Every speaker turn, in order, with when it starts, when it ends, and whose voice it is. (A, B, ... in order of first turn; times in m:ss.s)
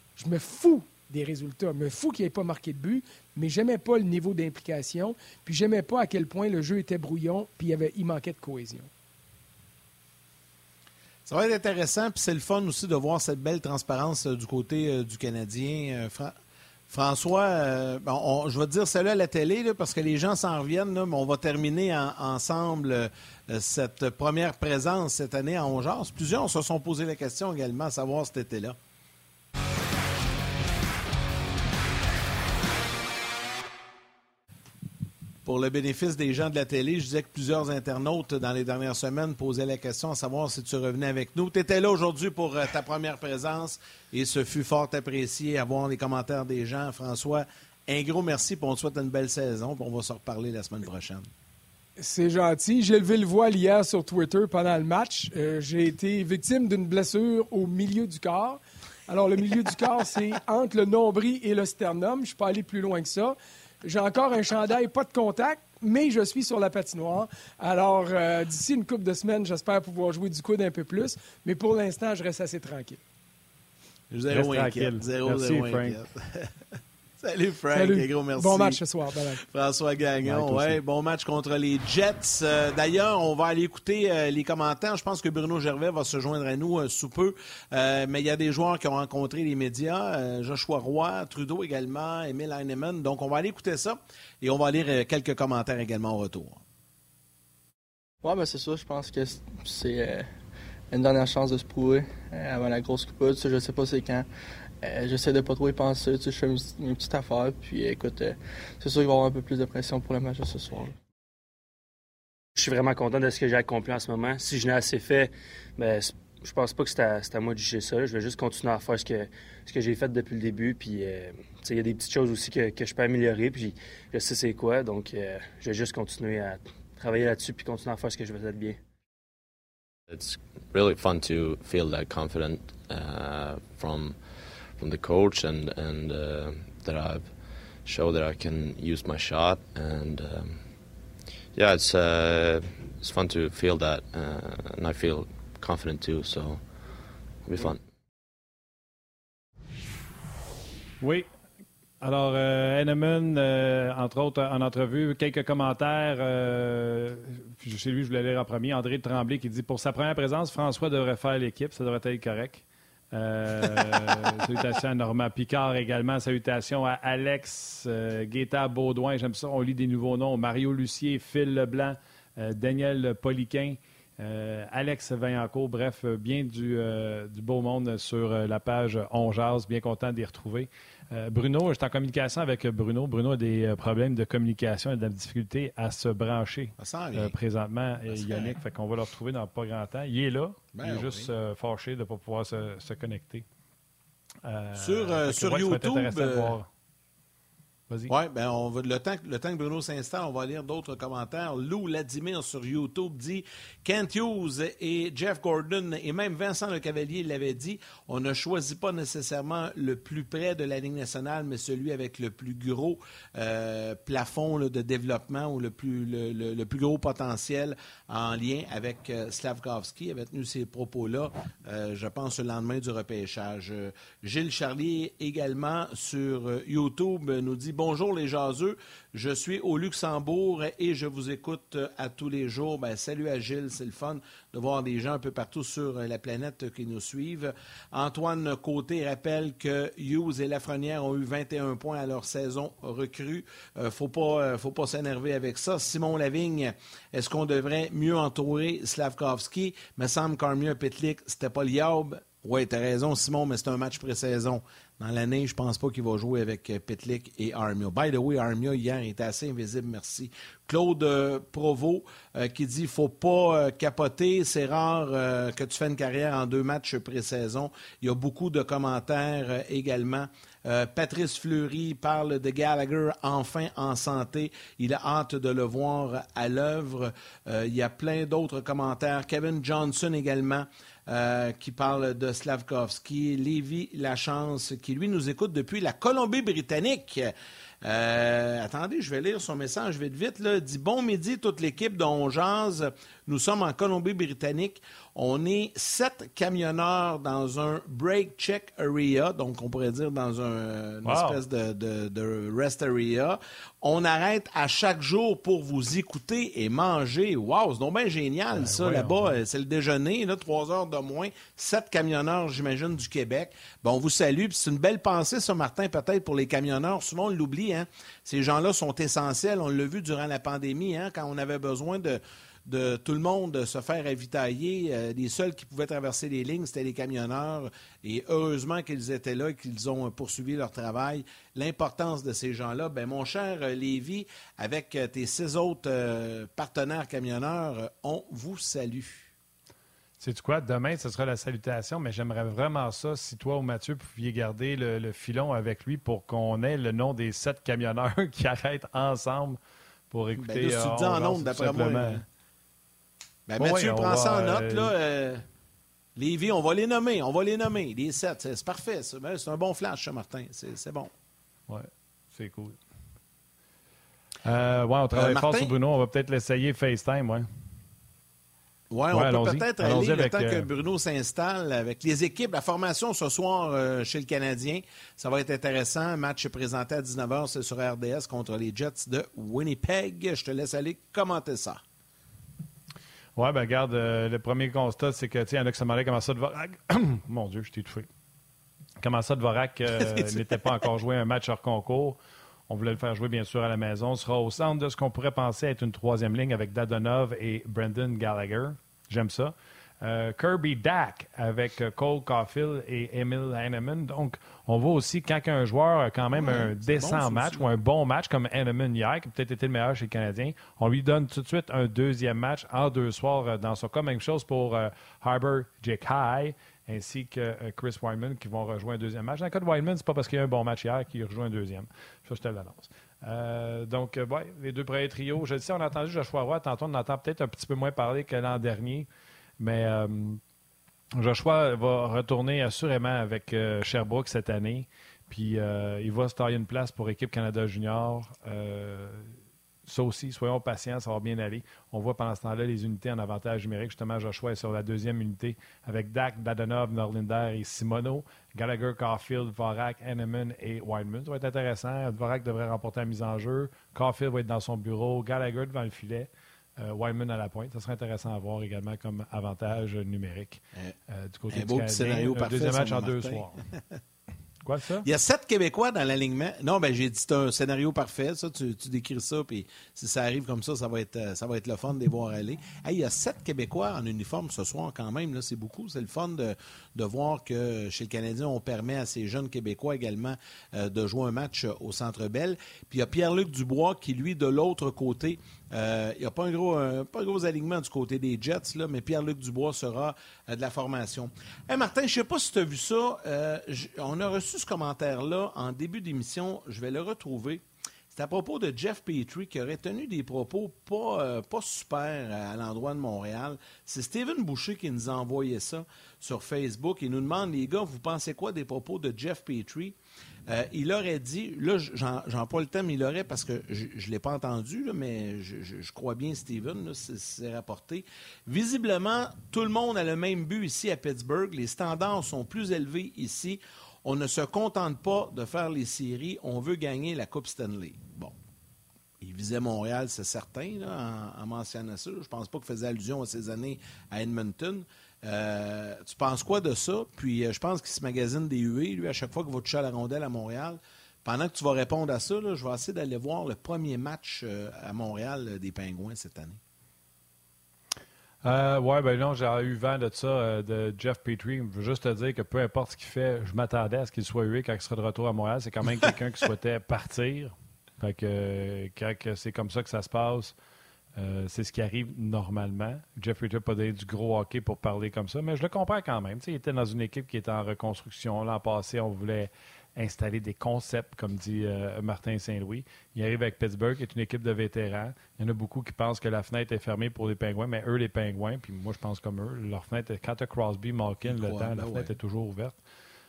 0:00.2-0:08.9 A
0:11.2-0:16.3 B
0:16.9-0:28.8 B
0:35.4-0:51.2 B
0:52.0-1:13.0 A
1:14.1-1:16.5 B
1:14.3-1:16.0 C
1:17.2-1:18.8 B
1:17.7-1:19.4 A
1:19.5-1:36.6 B
1:20.2-1:20.8 C
1:38.2-1:40.3 D
1:40.9-1:44.3 D
1:44.8-1:51.0 D
1:52.6-2:08.8 E
2:10.1-2:20.9 F
2:21.5-2:27.8 F
2:31.0-2:31.3 C
2:32.0-3:13.4 C
3:06.8-3:07.3 B
3:08.1-3:08.6 B
3:10.7-3:11.3 B
3:14.4-3:16.7 C
3:14.7-3:16.6 B
3:18.1-4:47.3 B
4:47.8-5:39.3 B
5:01.0-5:01.4 C
5:08.5-5:09.3 C
5:40.2-5:49.6 C
5:50.1-5:52.2 C
5:50.4-5:52.2 B
5:53.5-5:55.4 B
5:53.6-5:54.9 C
5:56.2-6:01.1 B
6:01.7-6:02.8 C
6:04.4-6:07.4 C
6:05.1-6:05.7 B
6:08.9-6:21.8 B
6:09.1-6:10.7 C
6:23.4-6:28.1 C
6:29.0-6:32.2 C
6:30.0-6:30.6 B
6:32.7-7:09.1 C
6:46.3-6:47.7 B
7:09.6-7:10.4 C
7:11.2-7:19.3 C
7:19.8-7:43.6 C
7:41.5-7:44.0 B
7:44.6-7:45.1 C
7:45.0-8:30.0 B
8:30.5-8:48.3 B
8:49.2-9:06.6 B
9:08.4-9:20.5 C
9:21.2-9:42.8 C
9:41.2-9:42.1 B